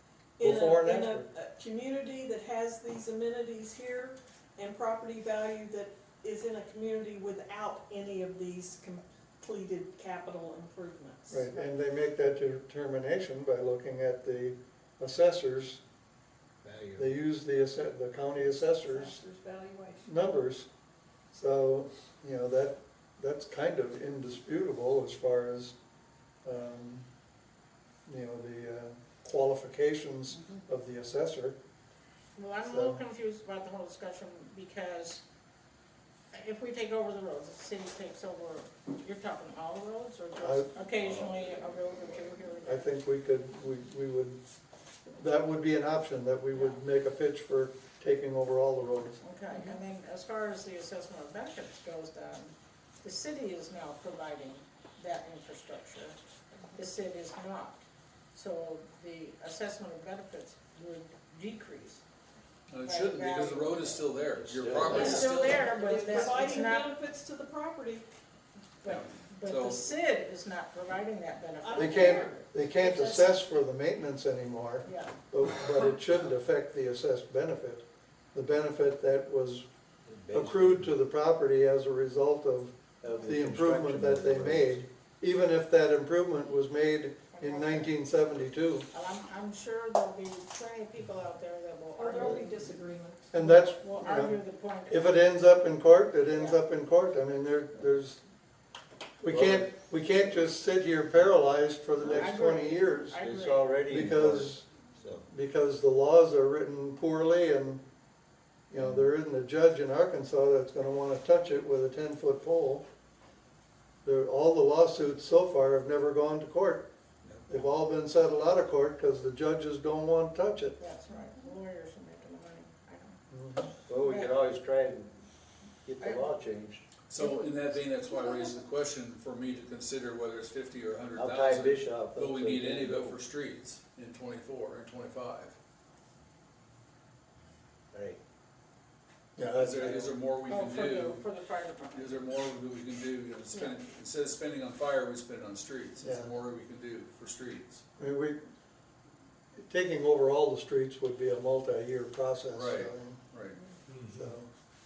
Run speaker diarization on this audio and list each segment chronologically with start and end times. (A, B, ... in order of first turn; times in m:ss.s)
0:00.4-0:11.6 A
0:00.4-0:01.2 B
0:11.3-0:15.8 B
0:16.6-0:17.1 C
0:17.0-0:19.2 B
0:18.9-0:20.1 A
0:20.0-0:20.7 B
0:21.3-0:25.8 B
0:26.4-0:27.0 B
0:28.0-0:31.6 B
0:32.3-0:35.2 D
0:32.6-0:33.0 B
0:36.3-0:42.9 D
0:40.4-0:40.7 B
0:42.6-0:44.4 B
0:45.2-0:49.2 B
0:46.5-0:46.8 D
0:49.2-0:56.2 D
0:49.5-0:49.8 A
0:56.7-0:57.8 D
0:58.3-1:02.0 D
1:02.7-1:05.9 E
1:02.8-1:04.0 D
1:04.4-1:05.3 C
1:04.8-1:08.1 A
1:05.0-1:07.0 D
1:08.8-1:13.4 D
1:08.8-1:09.9 E
1:11.6-1:12.4 A
1:11.8-1:19.7 B
1:14.8-1:15.1 D
1:20.0-1:20.9 C
1:20.3-1:28.9 B
1:23.0-1:24.8 C
1:27.3-1:27.9 D
1:28.9-1:32.5 D
1:32.0-1:33.3 A
1:33.3-1:38.2 B
1:33.4-1:35.2 D
1:36.3-1:36.6 D
1:39.2-1:43.2 B
1:39.3-1:39.7 C
1:42.0-1:43.8 D
1:43.2-1:45.2 C
1:43.9-1:44.7 B
1:45.2-1:47.8 B
1:48.7-1:52.8 B
1:48.8-1:49.1 C
1:54.0-1:56.9 B
1:57.2-1:57.7 C
1:57.5-2:00.8 B
2:00.8-2:03.2 D
2:03.3-2:03.7 B
2:03.9-2:05.2 C
2:04.0-2:04.4 D
2:05.8-2:06.8 C
2:07.1-2:15.5 E
2:07.2-2:07.6 A
2:11.1-2:13.2 C
2:17.9-2:18.2 C
2:19.4-2:20.1 B
2:19.5-2:21.2 E
2:20.5-2:22.3 D
2:21.9-2:27.8 E
2:23.5-2:23.8 D
2:26.0-2:26.3 B
2:28.0-2:28.4 B
2:29.6-2:33.2 B
2:32.5-2:33.6 E
2:34.0-2:34.5 B